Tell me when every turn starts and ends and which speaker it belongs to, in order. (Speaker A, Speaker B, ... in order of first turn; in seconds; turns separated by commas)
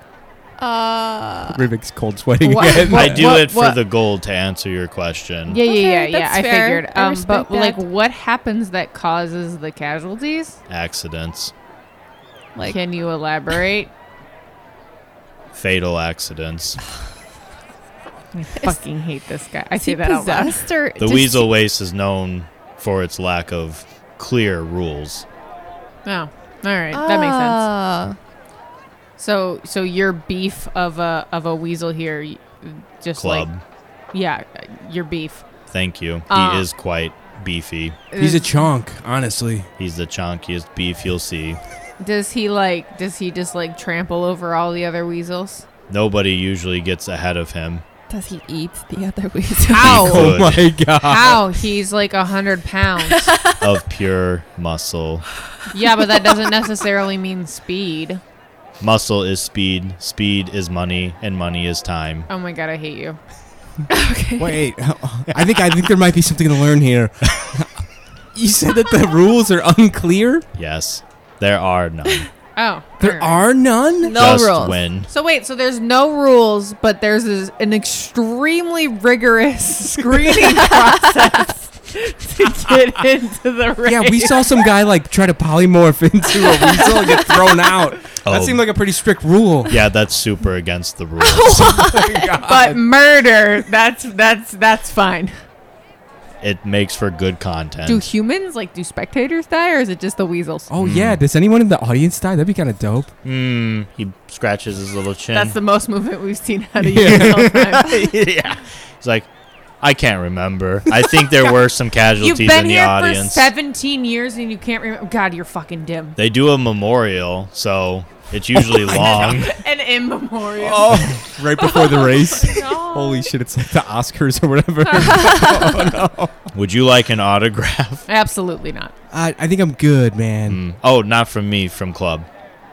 Speaker A: 0.6-1.6, Speaker B: 1.5-3.4, Speaker C: 2.4-3.8, Speaker D: 2.9-5.6, Speaker C: 5.5-10.6, Speaker A: 5.6-7.8, Speaker D: 10.7-11.5, Speaker C: 12.7-13.9, Speaker D: 15.5-16.8, Speaker C: 18.3-20.6, Speaker A: 19.8-21.5, Speaker D: 21.0-25.2, Speaker C: 26.1-27.6, Speaker A: 26.9-28.2, Speaker C: 29.2-33.5, Speaker D: 33.2-33.6, Speaker C: 34.1-35.4, Speaker D: 35.7-38.0, Speaker C: 36.3-36.7, Speaker C: 38.1-38.6, Speaker B: 38.1-39.7, Speaker D: 39.8-41.6, Speaker C: 42.0-45.7, Speaker D: 45.9-47.8, Speaker A: 48.1-50.1, Speaker C: 49.7-50.4, Speaker D: 49.8-50.7, Speaker B: 49.9-51.4, Speaker C: 51.0-53.3, Speaker A: 53.0-53.8, Speaker D: 53.6-55.3, Speaker C: 55.7-58.2, Speaker D: 58.8-62.3, Speaker C: 62.3-63.2, Speaker A: 63.9-64.5, Speaker B: 64.4-67.8, Speaker B: 68.3-70.5, Speaker D: 70.6-72.3, Speaker C: 72.6-73.4, Speaker B: 73.0-74.4, Speaker A: 74.0-74.8, Speaker D: 74.1-75.1, Speaker C: 75.1-84.6, Speaker A: 80.5-81.2, Speaker B: 83.8-89.7, Speaker C: 86.4-87.6, Speaker D: 88.2-88.6, Speaker D: 89.7-91.8, Speaker A: 91.3-92.2, Speaker B: 91.5-92.8, Speaker C: 91.7-95.3, Speaker D: 96.4-98.1, Speaker C: 97.8-100.7, Speaker B: 100.7-103.1, Speaker D: 100.8-101.2, Speaker D: 103.2-105.6, Speaker C: 105.3-108.1, Speaker B: 106.8-107.4, Speaker D: 107.0-109.3, Speaker D: 109.8-113.5, Speaker C: 112.2-116.2, Speaker D: 116.2-119.5, Speaker C: 118.7-123.3, Speaker B: 118.9-119.4, Speaker B: 120.6-126.5, Speaker C: 124.9-125.3, Speaker A: 125.1-125.8, Speaker D: 126.5-128.1, Speaker C: 128.1-128.9, Speaker B: 129.1-130.6, Speaker D: 130.5-132.3